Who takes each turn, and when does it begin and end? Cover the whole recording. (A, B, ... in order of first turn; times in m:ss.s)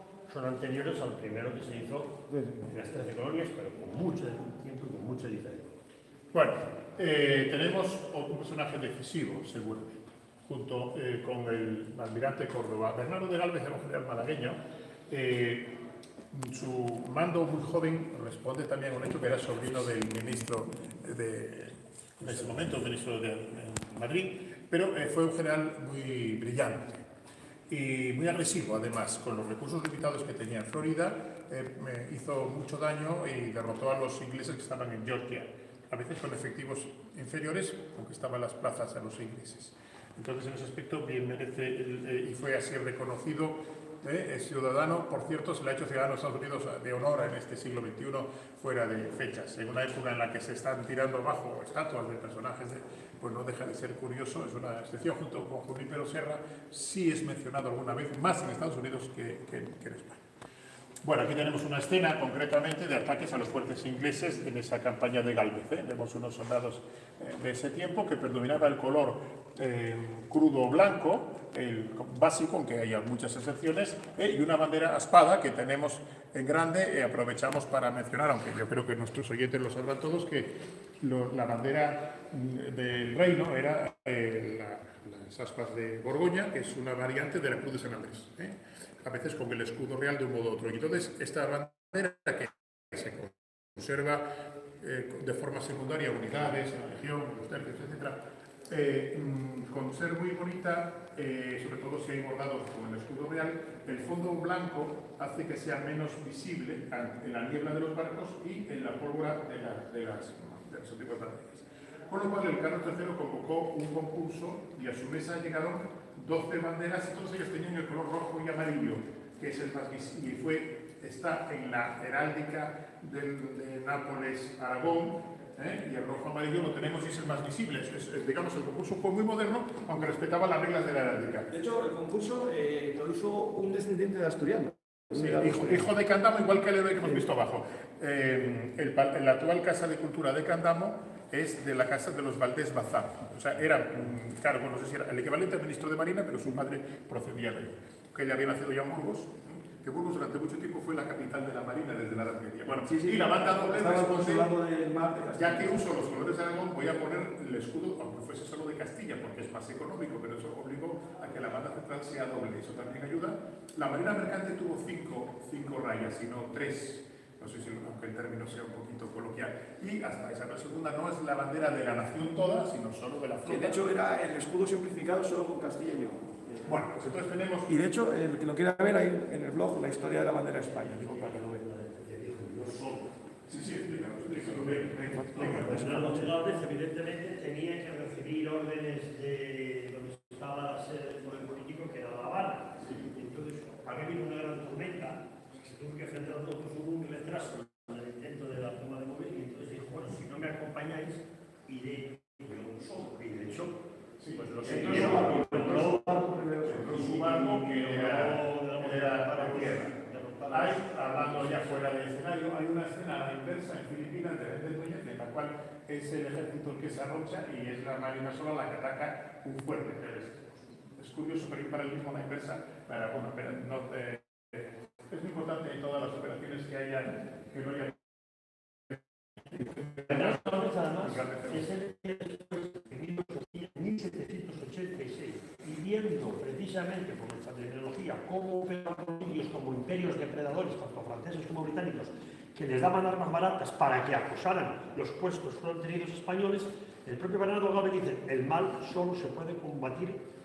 0:00.3-0:05.8 A
0:02.3-0:02.7 B
0:06.3-0:14.6 C
0:15.1-0:15.8 C
0:16.3-0:27.0 C
0:27.7-1:00.2 C
1:01.0-1:34.3 C
1:34.8-2:11.5 C
2:11.5-2:15.8 B
2:15.1-2:34.5 C
2:32.7-2:35.8 B
2:35.4-2:53.8 C
2:53.4-2:56.7 B
2:56.6-2:57.7 C
2:57.7-3:01.5 B
3:01.2-3:03.1 A
3:03.5-3:06.2 C
3:05.0-3:06.3 B
3:05.3-3:23.8 A
3:24.2-3:29.9 C
3:24.3-3:26.3 A
3:24.6-3:27.4 B
3:26.9-3:31.5 A
3:30.5-3:48.0 C
3:48.9-3:51.7 C
3:50.1-4:10.2 A